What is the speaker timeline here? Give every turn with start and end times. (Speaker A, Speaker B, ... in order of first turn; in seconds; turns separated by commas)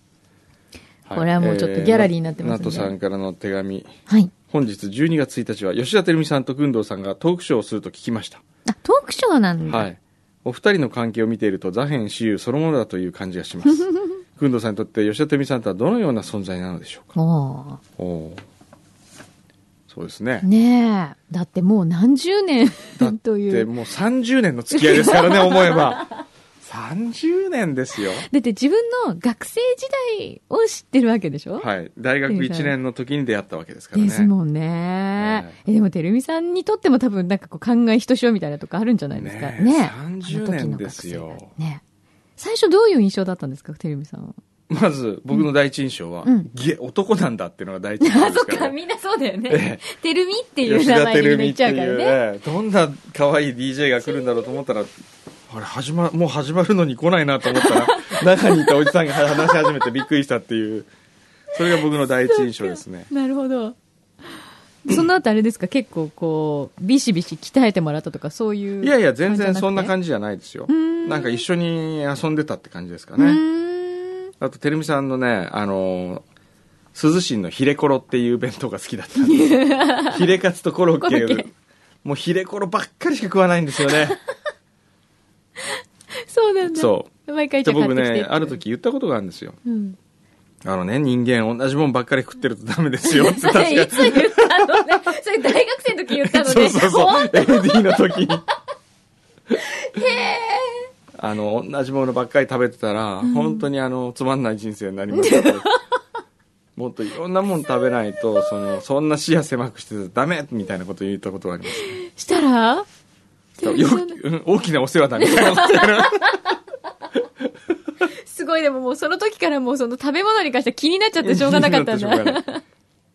Speaker A: 1.1-3.9, Speaker B: 1.1-2.9, Speaker A: 4.5-8.4, Speaker B: 8.7-9.9, Speaker A: 9.7-17.1, Speaker B: 17.1-17.8, Speaker A: 18.0-18.4, Speaker A: 19.9-20.4, Speaker B: 20.4-23.7, Speaker A: 23.0-26.1, Speaker B: 24.7-26.1, Speaker A: 26.6-28.3, Speaker B: 28.3-31.7, Speaker A: 31.6-34.3, Speaker B: 32.3-32.7, Speaker B: 33.9-41.8, Speaker A: 35.2-35.5, Speaker A: 39.1-41.5, Speaker B: 42.4-44.4, Speaker A: 44.7-48.7, Speaker B: 48.0-52.2, Speaker A: 49.5-49.8, Speaker A: 50.6-54.9, Speaker B: 54.0-54.6, Speaker A: 55.5-60.9, Speaker B: 57.5-59.9, Speaker A: 61.5-63.1, Speaker B: 62.2-63.7, Speaker B: 64.8-69.9, Speaker A: 68.8-73.4, Speaker B: 70.7-71.4, Speaker B: 73.2-74.3, Speaker A: 74.4-76.2, Speaker A: 76.9-81.5, Speaker B: 79.2-80.3, Speaker B: 81.0-81.5, Speaker A: 82.0-84.2, Speaker B: 85.6-88.6, Speaker A: 86.7-87.1, Speaker A: 87.6-89.6, Speaker B: 89.6-90.0, Speaker A: 90.6-95.1, Speaker B: 93.0-98.3, Speaker A: 96.2-98.4, Speaker B: 99.5-100.9, Speaker A: 101.1-105.7, Speaker B: 103.2-103.7, Speaker B: 105.1-105.8, Speaker A: 106.8-112.0, Speaker B: 111.9-112.8, Speaker B: 113.6-114.2, Speaker A: 113.6-116.4, Speaker B: 115.2-116.5, Speaker B: 118.1-122.6, Speaker A: 121.2-122.4